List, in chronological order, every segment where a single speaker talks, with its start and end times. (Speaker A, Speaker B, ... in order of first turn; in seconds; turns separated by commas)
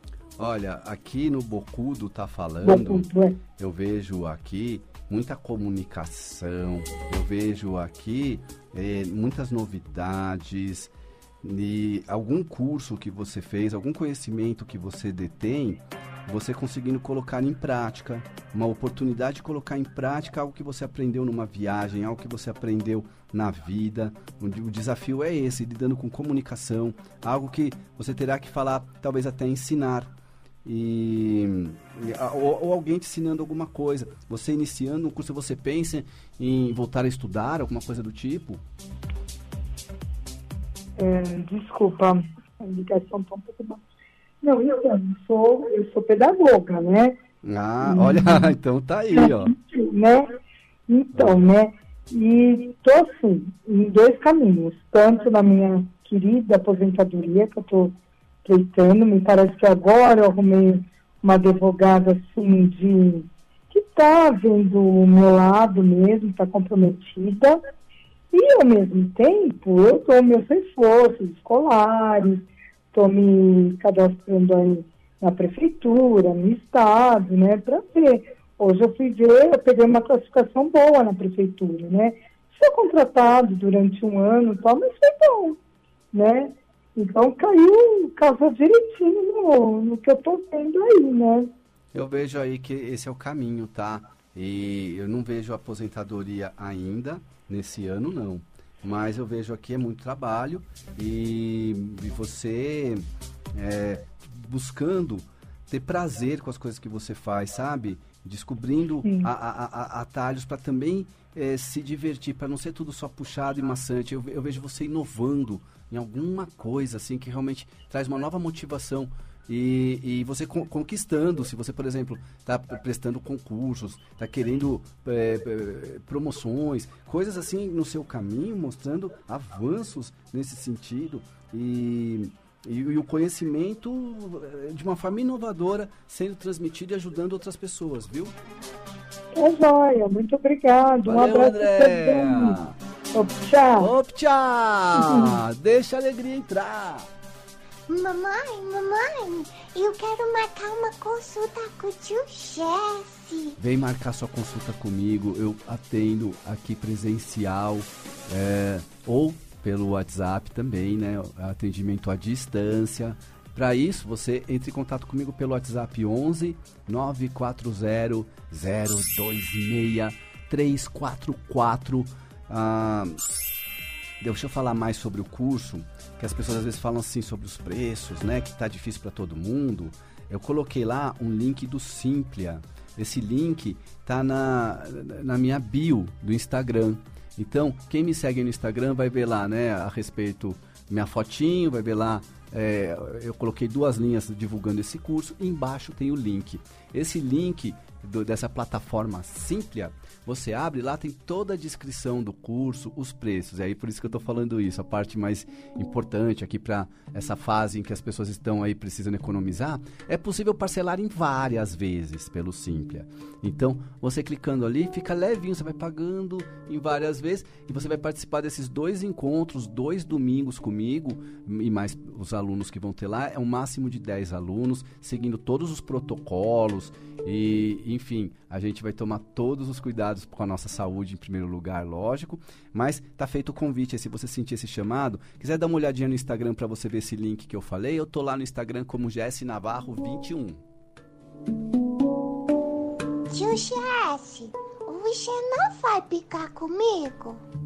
Speaker A: 0.4-30.1, Speaker B: 2.6-3.4, Speaker A: 30.6-38.6, Speaker B: 41.0-43.8, Speaker B: 44.4-47.1, Speaker A: 47.4-49.5, Speaker B: 47.8-48.5, Speaker B: 49.1-50.3, Speaker B: 50.9-67.6, Speaker B: 68.3-85.6, Speaker B: 86.1-91.5, Speaker A: 91.9-103.0, Speaker A: 103.5-138.3, Speaker B: 109.0-109.3, Speaker B: 139.3-142.6, Speaker A: 141.0-142.8, Speaker B: 143.1-143.9, Speaker A: 143.8-147.1, Speaker C: 147.9-153.6, Speaker A: 153.6-173.2, Speaker A: 174.2-240.6, Speaker C: 243.3-247.4